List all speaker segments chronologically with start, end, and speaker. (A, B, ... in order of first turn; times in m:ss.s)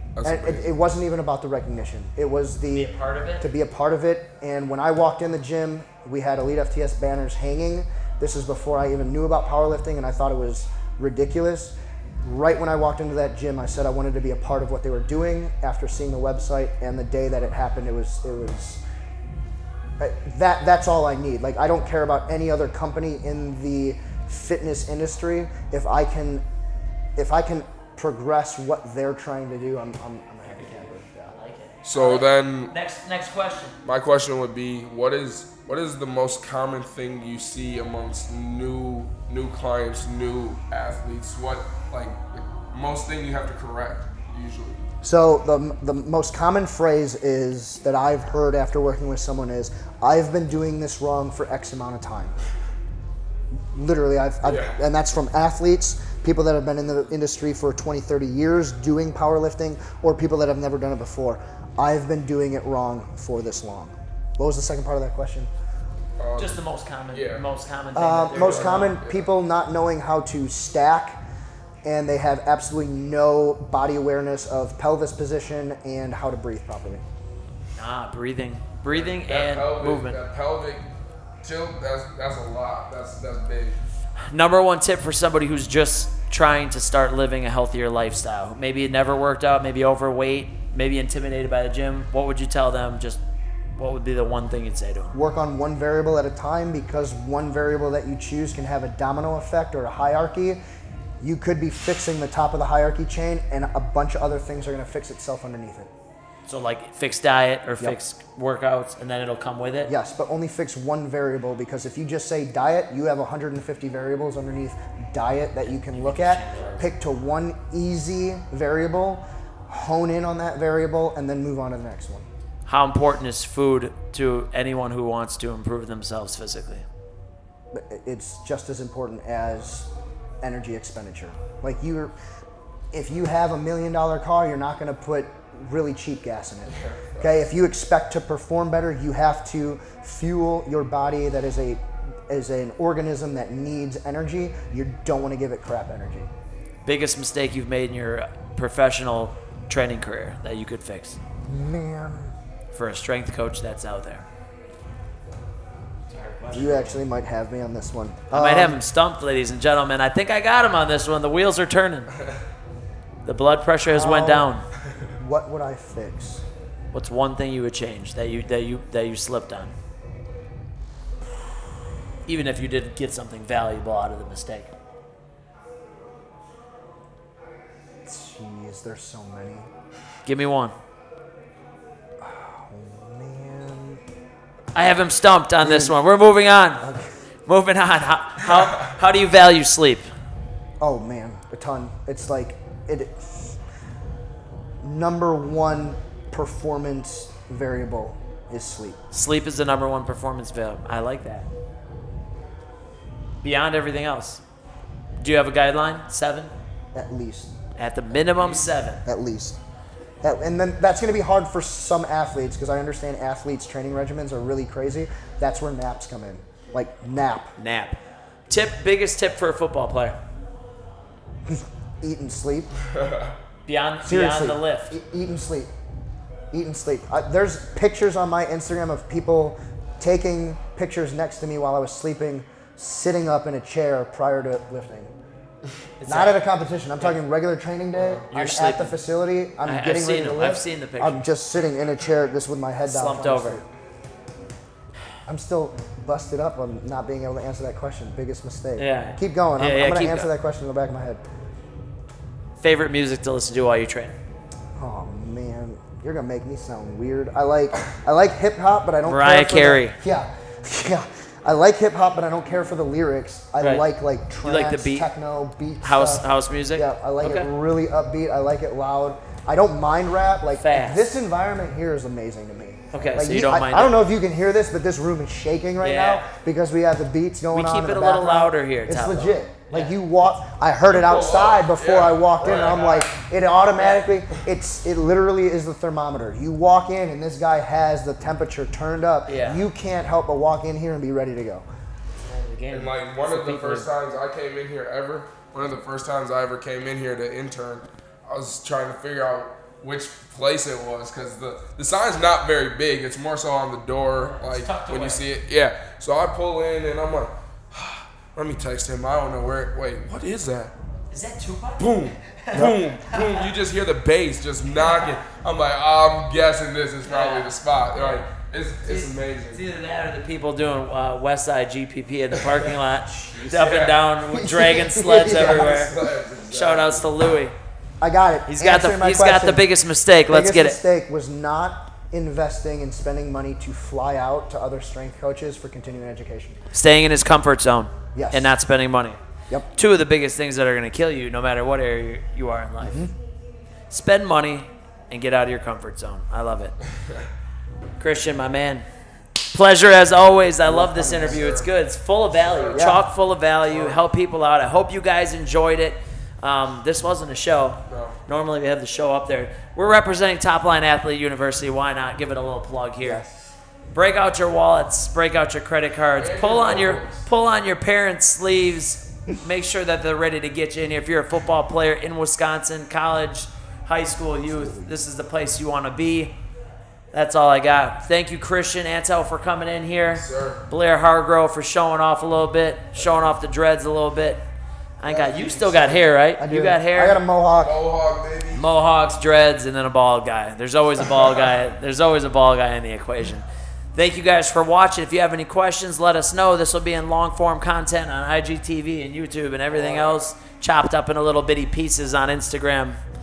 0:00.2-0:00.7 A
0:00.2-0:18.8 B
0:02.7-0:03.5 C
0:20.0-0:26.4 B
0:27.2-0:31.3 B
0:30.5-0:33.8 C
0:31.8-0:32.7 A
0:33.8-0:44.8 A
0:45.0-0:52.4 B
0:53.7-1:05.5 B
0:54.4-0:54.8 A
1:06.2-1:06.6 A
1:06.4-1:09.0 C
1:07.1-1:07.4 A
1:08.0-1:11.2 B
1:08.3-1:09.3 A
1:11.8-1:17.0 B
1:17.8-1:20.2 C
1:18.9-1:20.9 A
1:21.4-1:23.8 A
1:24.2-1:33.2 C
1:33.8-1:35.2 C
1:35.1-1:40.6 B
1:41.2-1:45.9 B
1:46.5-1:49.9 C
1:49.9-2:02.3 B
1:55.6-1:56.9 C
2:02.7-2:06.8 C
2:07.7-2:09.9 B
2:10.4-2:12.1 B
2:12.9-2:26.3 B
2:16.7-2:17.3 A
2:26.8-2:31.2 C
2:31.5-2:32.3 B
2:32.7-2:34.2 C
2:36.1-2:37.0 C
2:36.5-2:38.8 B
2:38.3-2:42.1 C
2:43.2-2:44.6 C
2:43.9-2:44.5 B
2:45.2-2:46.4 B
2:46.9-2:49.7 C
2:52.3-2:54.7 C
2:58.1-2:59.7 B
3:00.2-3:00.7 C
3:02.2-3:04.0 B
3:04.7-3:06.8 C
3:05.6-3:06.0 B
3:06.8-3:07.1 B
3:07.5-3:10.1 C
3:10.8-3:13.6 B
3:14.8-3:19.0 B
3:19.1-3:21.5 C
3:23.4-3:24.4 C
3:25.2-3:26.5 C
3:26.9-3:27.5 B
3:27.8-3:29.0 C
3:29.1-3:29.6 B
3:30.2-3:37.6 B
3:37.6-3:40.2 C
3:41.5-3:42.7 B
3:43.0-3:43.3 A
3:43.7-3:44.9 C
3:44.0-3:45.7 B
3:46.5-3:55.1 B
3:56.0-3:56.4 C
3:56.1-4:03.7 B
3:58.0-3:58.2 A
3:58.3-3:59.0 C
3:59.6-4:01.2 C
4:02.9-4:03.6 C
4:05.3-4:11.2 B
4:08.8-4:10.3 C
4:12.6-4:14.2 C
4:14.8-4:51.6 B
4:19.0-4:20.0 C
4:23.6-4:23.8 C
4:24.4-4:25.1 C
4:25.8-4:27.5 C
4:30.6-4:31.2 C
4:32.9-4:34.0 C
4:35.8-4:36.3 C
4:37.5-4:40.0 C
4:40.9-4:43.2 A
4:43.8-4:44.0 C
4:49.3-4:49.6 C
4:52.2-4:53.9 C
4:52.7-5:10.7 A
5:04.2-5:05.3 C
5:11.1-5:13.5 C
5:11.8-5:19.6 A
5:17.0-5:18.2 C
5:18.8-5:25.9 C
5:23.1-5:26.0 B
5:23.4-5:24.0 A
5:25.3-5:27.1 A
5:26.5-5:27.6 C
5:28.0-5:29.7 B
5:28.5-5:30.8 C
5:30.3-5:36.6 B
5:36.7-5:39.2 C
5:38.1-5:38.6 B
5:39.7-5:43.1 C
5:42.8-5:43.1 B
5:43.9-5:46.8 C
5:48.0-5:48.9 C
5:49.5-6:03.2 C
5:50.7-5:51.4 B
5:51.2-5:51.7 A
5:52.4-5:52.9 A
5:52.7-5:53.0 B
5:53.7-5:54.0 A
5:57.9-5:58.2 A
6:03.0-6:03.3 B
6:03.9-6:16.4 C
6:06.2-6:07.3 A
6:14.5-6:14.9 B
6:17.1-6:24.4 C
6:20.2-6:20.6 A
6:25.0-6:27.2 C
6:25.0-6:26.0 A
6:26.4-6:27.8 B
6:27.6-6:28.7 A
6:28.5-6:43.0 C
6:39.7-6:40.2 A